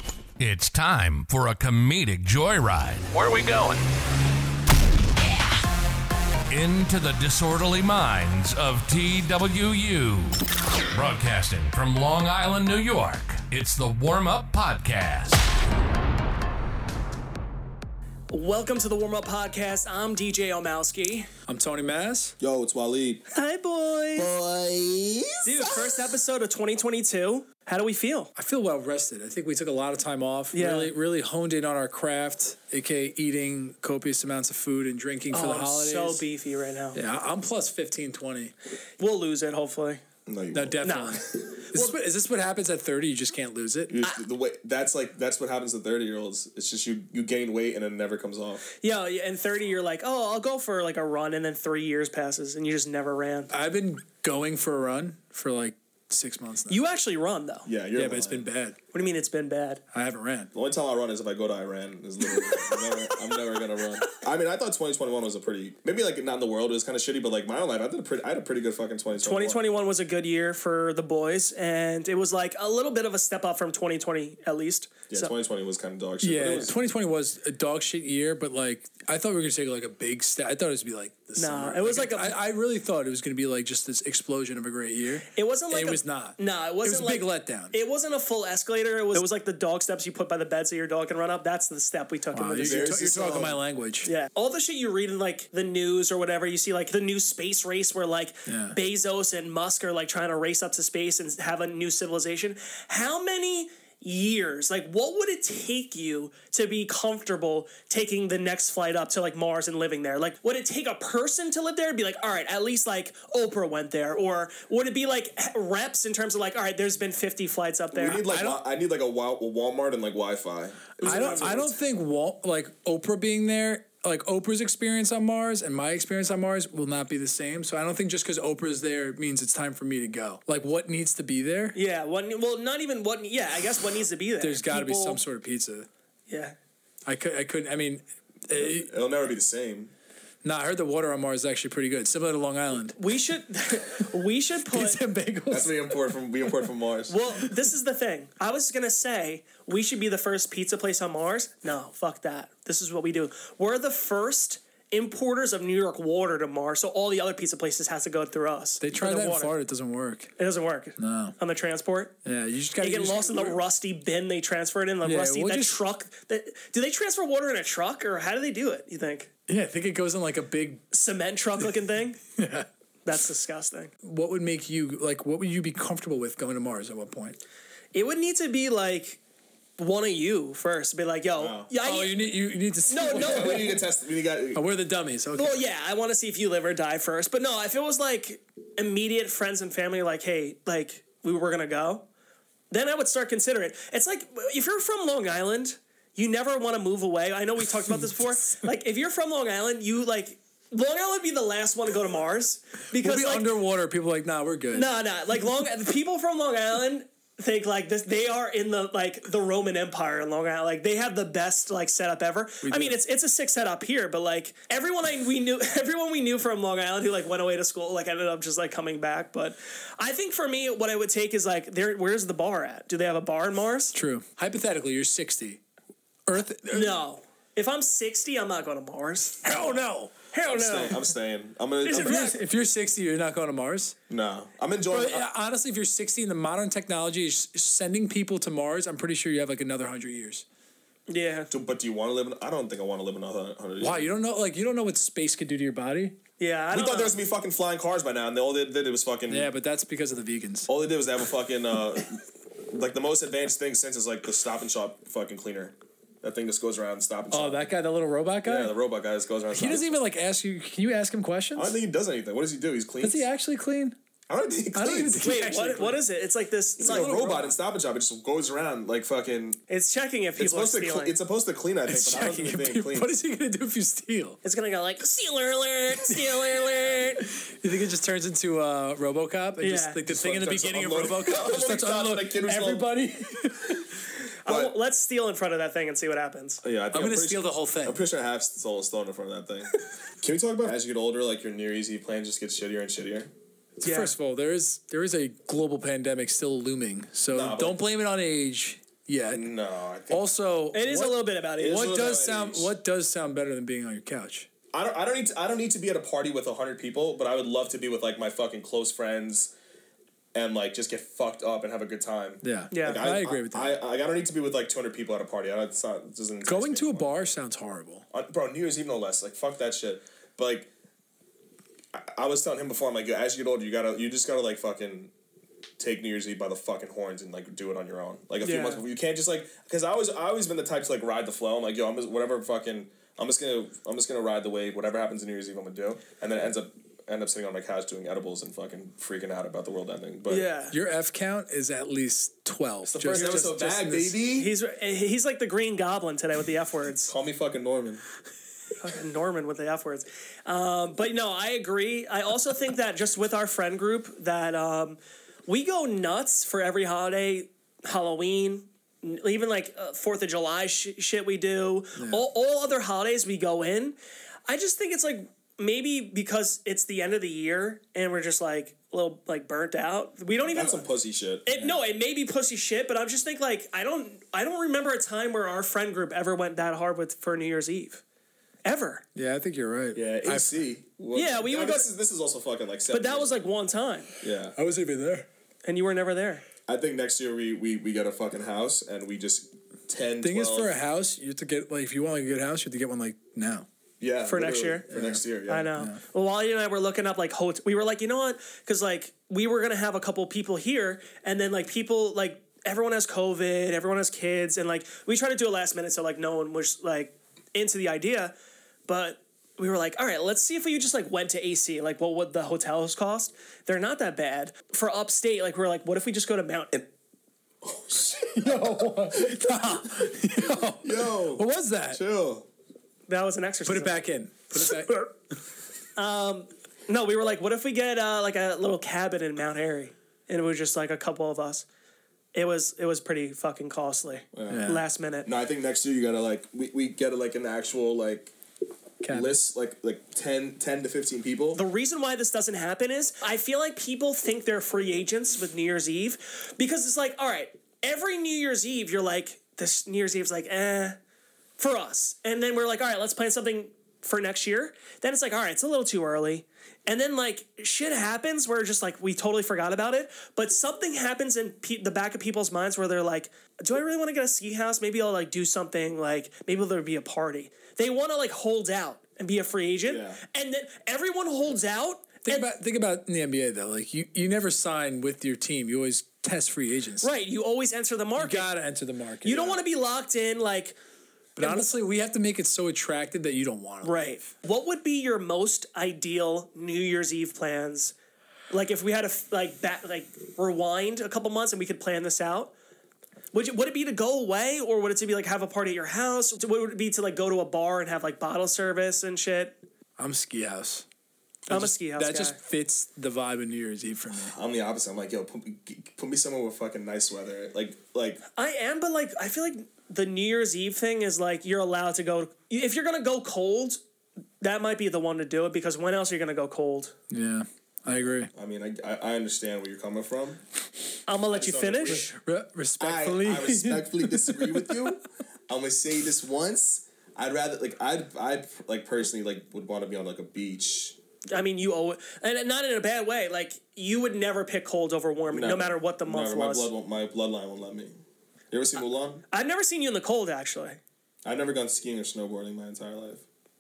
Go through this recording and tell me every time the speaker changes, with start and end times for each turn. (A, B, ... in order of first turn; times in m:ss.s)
0:00.4-0:03.8 A
0:06.5-0:15.5 A
0:18.3-0:21.3 B
0:21.5-0:22.4 C
0:22.4-0:23.2 D
0:23.3-0:24.3 B
0:25.4-0:28.3 B
0:28.4-0:36.2 C
0:30.5-0:30.9 B
0:35.3-0:37.0 B
0:36.9-0:38.5 C
0:39.0-0:40.0 B
0:40.3-0:41.8 D
0:40.5-0:43.9 C
0:40.8-0:41.2 B
0:43.9-0:48.7 D
0:48.8-0:53.5 B
0:53.5-0:56.8 C
0:56.7-0:57.7 B
0:57.7-0:58.5 D
0:58.0-0:58.8 C
0:58.9-0:59.8 B
0:59.9-1:00.5 C
1:00.5-1:09.6 D
1:02.3-1:03.4 B
1:09.2-1:15.3 B
1:15.1-1:16.8 D
1:16.2-1:27.8 C
1:21.4-1:22.4 B
1:25.3-1:33.1 B
1:32.3-1:34.1 C
1:32.6-1:33.6 D
1:34.0-1:58.2 B
1:38.5-1:38.8 C
1:57.9-2:01.8 D
1:58.2-1:58.6 C
2:01.0-2:11.8 C
2:01.0-2:01.5 B
2:11.8-2:15.2 B
2:14.4-2:15.9 C
2:16.3-2:16.6 B
2:17.1-2:18.9 C
2:18.5-2:19.9 D
2:20.4-2:23.0 C
2:23.0-2:25.0 B
2:24.7-2:26.1 C
2:25.5-2:27.2 D
2:27.1-2:39.6 B
2:38.8-2:40.3 C
2:40.4-2:42.2 B
2:41.0-2:41.4 C
2:42.2-2:43.6 C
2:42.8-2:49.3 B
2:45.0-2:45.8 C
2:49.5-2:50.9 C
2:50.9-2:52.2 B
2:52.4-2:52.7 C
2:53.0-2:53.9 B
2:54.0-2:57.4 C
2:57.9-2:59.2 B
2:59.8-3:02.3 B
3:01.4-3:01.7 D
3:01.8-3:03.8 C
3:02.9-3:03.7 B
3:03.0-3:04.6 D
3:04.5-3:05.6 C
3:05.4-3:12.1 B
3:12.7-3:23.6 B
3:23.0-3:24.9 C
3:24.7-3:43.9 B
3:32.6-3:33.0 C
3:43.9-3:45.6 C
3:46.3-3:47.0 C
3:46.7-3:51.1 B
3:49.5-3:50.1 C
3:50.5-3:52.3 D
3:51.9-3:52.4 B
3:51.9-3:54.0 C
3:54.1-3:55.3 D
3:54.9-4:00.4 C
4:01.1-4:01.5 B
4:01.5-4:04.1 D
4:03.8-4:06.2 C
4:06.4-4:07.2 B
4:06.7-4:09.5 D
4:09.3-4:10.7 C
4:10.7-4:17.7 D
4:17.3-4:18.8 C
4:18.4-4:20.0 D
4:19.5-4:21.8 C
4:21.6-4:23.3 D
4:23.0-4:24.0 C
4:24.3-4:25.2 D
4:24.7-4:26.0 C
4:25.1-4:27.5 B
4:26.8-4:29.6 D
4:26.8-4:27.2 C
4:29.7-4:31.2 B
4:30.4-4:33.1 D
4:31.9-4:34.4 C
4:34.4-4:37.3 B
4:36.1-4:36.7 C
4:37.2-4:44.0 C
4:39.6-4:40.0 B
4:40.1-4:42.8 D
4:44.4-4:46.6 B
4:44.5-4:44.8 D
4:46.6-4:53.3 D
4:46.9-4:48.0 C
4:53.8-4:59.5 C
4:53.8-4:54.1 B
4:57.3-4:57.8 D
4:59.3-5:00.2 D
5:00.1-5:04.5 C
5:00.7-5:02.0 B
5:01.6-5:02.7 D
5:04.7-5:09.5 D
5:10.3-5:17.2 D
5:12.4-5:13.8 C
5:12.7-5:13.1 B
5:16.4-5:18.1 C
5:18.1-5:20.7 D
5:21.9-5:25.1 D
5:25.8-5:40.5 D
5:28.4-5:28.8 B
5:40.3-5:40.8 B
5:40.7-5:44.2 C
5:42.9-5:44.5 D
5:44.3-5:47.1 B
5:47.1-5:48.0 D
5:48.8-6:04.0 B
6:02.0-6:02.2 C
6:04.5-6:10.9 B
6:10.5-6:11.5 D
6:11.5-6:18.0 B
6:18.6-6:19.0 B
6:19.2-6:20.5 C
6:20.0-6:23.4 D
6:21.1-6:21.9 B
6:22.9-6:24.1 B
6:24.2-6:24.6 D
6:24.6-6:25.3 C
6:25.6-6:26.4 B
6:26.7-6:30.8 D
6:30.2-6:33.7 C
6:34.0-6:35.7 D
6:34.3-6:34.9 B
6:34.9-6:35.2 C
6:35.5-6:48.3 B
6:48.9-6:56.9 B
6:57.6-6:59.7 D
6:58.3-7:02.0 C
7:00.8-7:02.5 D
7:03.1-7:04.0 B
7:03.7-7:05.1 C
7:04.6-7:05.1 B
7:06.0-7:11.7 B
7:12.3-7:15.3 B
7:14.3-7:14.7 D
7:14.5-7:14.8 C
7:15.2-7:18.4 D
7:19.0-7:19.4 C
7:19.1-7:21.6 D
7:21.5-7:31.0 B
7:31.6-7:52.5 B
7:49.9-7:50.2 D
7:52.3-7:57.1 C
7:57.0-7:58.5 B
7:58.2-7:59.6 C
7:59.2-8:00.8 B
8:01.4-8:04.2 C
8:01.4-8:01.7 B
8:03.8-8:07.9 B
8:08.5-8:12.5 B
8:13.3-8:19.6 B
8:20.0-8:20.8 C
8:21.5-8:22.4 B
8:21.5-8:24.4 C
8:24.3-8:28.2 D
8:28.4-8:33.8 B
8:34.4-8:36.9 B
8:37.1-8:38.3 C
8:38.3-8:40.4 D
8:41.1-8:42.1 B
8:41.3-8:42.1 D
8:41.9-8:44.9 C
8:42.8-8:51.0 D
8:51.3-8:56.7 B
8:55.3-8:58.0 D
8:58.5-8:59.2 D
8:59.3-9:00.8 B
9:01.2-9:03.2 D